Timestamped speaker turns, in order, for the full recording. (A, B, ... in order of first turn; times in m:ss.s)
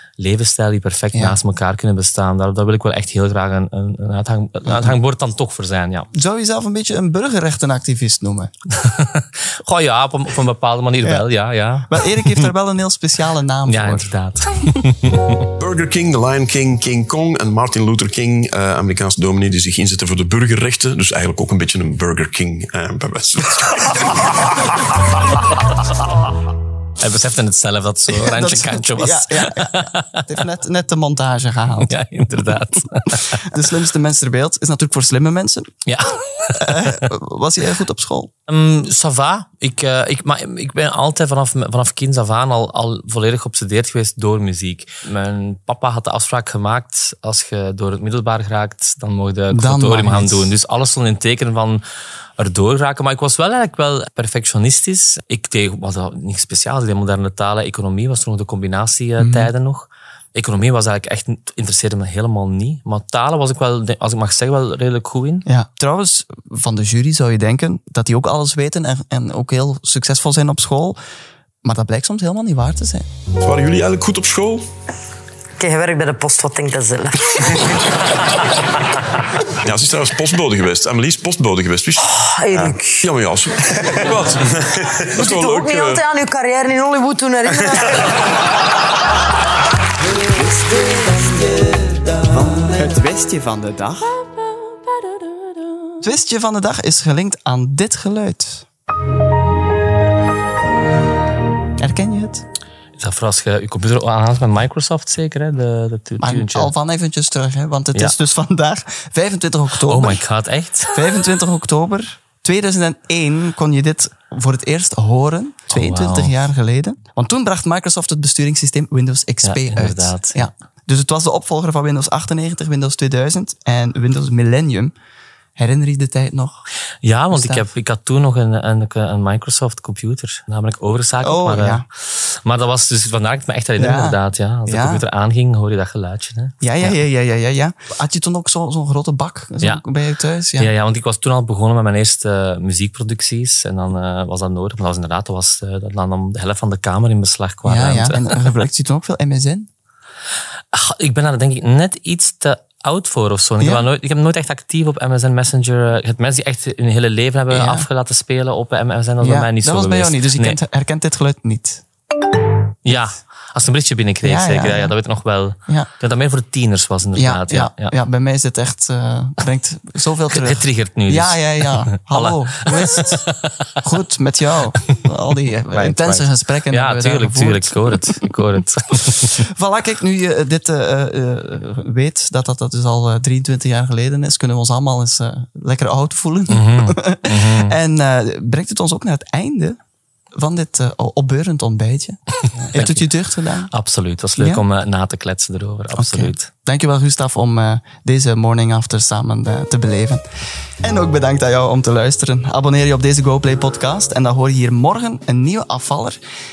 0:00.2-0:06.1 A
0:01.1-0:01.4 B
0:04.6-0:05.0 B
0:06.1-0:08.5 B
0:08.8-0:12.5 A
0:11.0-0:11.2 B
0:11.8-0:14.8 B
0:13.7-0:15.5 A
0:15.6-0:24.1 C
0:27.0-0:30.2 A
0:28.1-0:31.9 B
0:31.8-0:33.5 A
0:33.0-0:35.7 B
0:35.8-0:37.0 A
0:36.5-0:38.3 B
0:38.5-0:51.8 A
0:49.5-0:50.5 B
0:52.4-1:05.4 A
0:59.2-0:59.5 B
1:05.4-1:11.0 B
1:11.6-1:13.0 B
1:13.4-1:14.6 C
1:15.6-1:17.7 D
1:19.6-1:26.0 C
1:22.2-1:23.0 D
1:25.2-1:27.9 D
1:27.5-1:27.9 C
1:30.3-1:34.2 B
1:36.0-1:38.6 B
1:41.8-1:42.4 B
1:43.0-1:46.7 A
1:46.2-1:50.2 B
1:49.8-1:51.0 A
1:50.9-2:04.9 B
1:55.7-1:56.4 A
1:59.4-2:00.5 A
2:05.6-2:06.6 B
2:07.0-2:17.0 A
2:07.3-2:07.7 B
2:11.2-2:11.8 B
2:13.8-2:15.0 B
2:16.6-2:20.7 B
2:20.6-2:28.4 A
2:27.6-2:29.7 B
2:30.7-2:40.6 A
2:33.6-2:33.9 B
2:37.5-2:37.9 B
2:39.2-2:41.8 B
2:42.8-2:47.9 A
2:44.2-2:44.9 B
2:47.1-2:53.3 B
2:50.3-2:53.7 A
2:53.8-2:58.0 B
2:55.7-2:59.4 A
2:59.1-3:09.8 B
3:06.5-3:07.8 A
3:10.3-3:13.7 B
3:12.7-3:13.1 A
3:13.7-3:16.5 A
3:14.4-3:14.6 B
3:15.9-3:20.2 B
3:20.8-3:26.2 B